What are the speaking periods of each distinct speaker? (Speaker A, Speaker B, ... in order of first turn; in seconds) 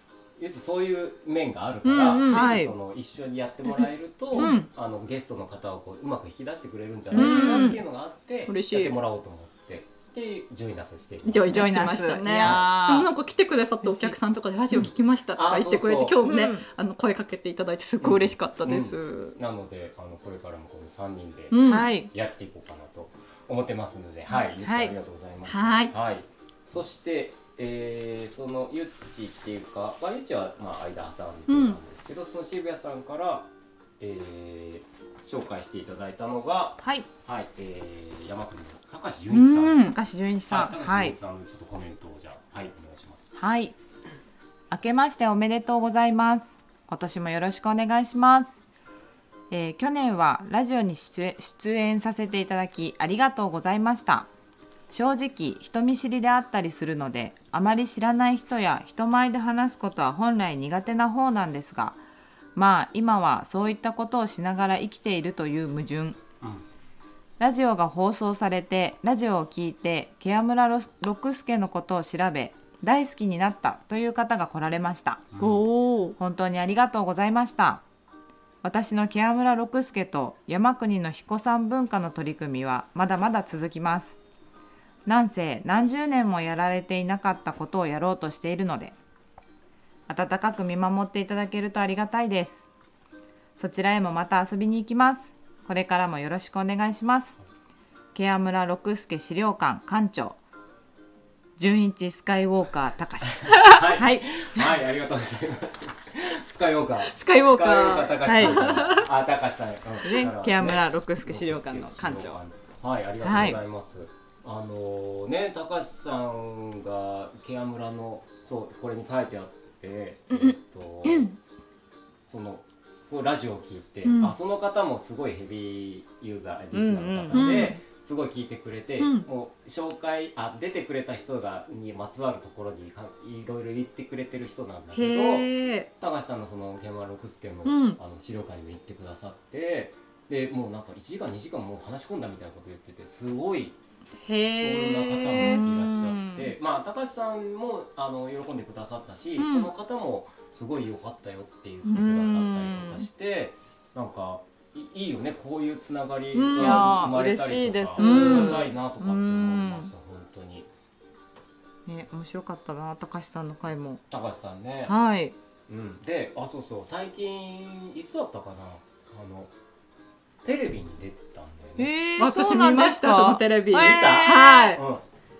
Speaker A: 0.4-12.8, 14.7-16.2, 18.0-33.5, 34.0-40.0, 40.5-43.4, 75.3-75.7, 103.4-121.3, 122.2-143.8, 144.4-160.7, 164.1-164.9, 165.7-169.5, 170.4-171.9, 173.7-175.0
Speaker B: 1.8-2.5, 4.3-4.7, 7.1-7.8, 8.5-9.0, 11.2-19.3, 21.5-21.9, 25.5-25.9, 31.5-31.8, 39.3-40.0, 75.4-76.1, 107.0-109.1, 124.0-124.3, 127.3-127.8, 129.0-129.3, 134.9-135.9, 137.6-138.0, 144.2-145.7, 149.4-149.7, 156.3-156.9, 157.9-158.7, 172.2-174.8
Speaker C: 2.2-2.7, 7.1-7.8, 11.5-13.1, 13.8-14.2, 16.2-16.6, 21.6-22.1, 24.6-24.9, 39.8-41.1, 43.4-43.7, 44.7-48.6, 49.5-54.3, 54.9-62.0, 62.5-66.2, 67.4-77.8, 78.6-84.2, 85.0-88.9, 90.1-92.7, 93.6-97.4, 98.1-100.4, 101.6-104.2, 108.2-108.6, 110.0-112.4, 113.2-113.6, 126.7-127.5, 145.7-146.5, 151.9-153.1, 156.6-159.9, 161.9-164.0, 164.8-165.3, 171.8-174.7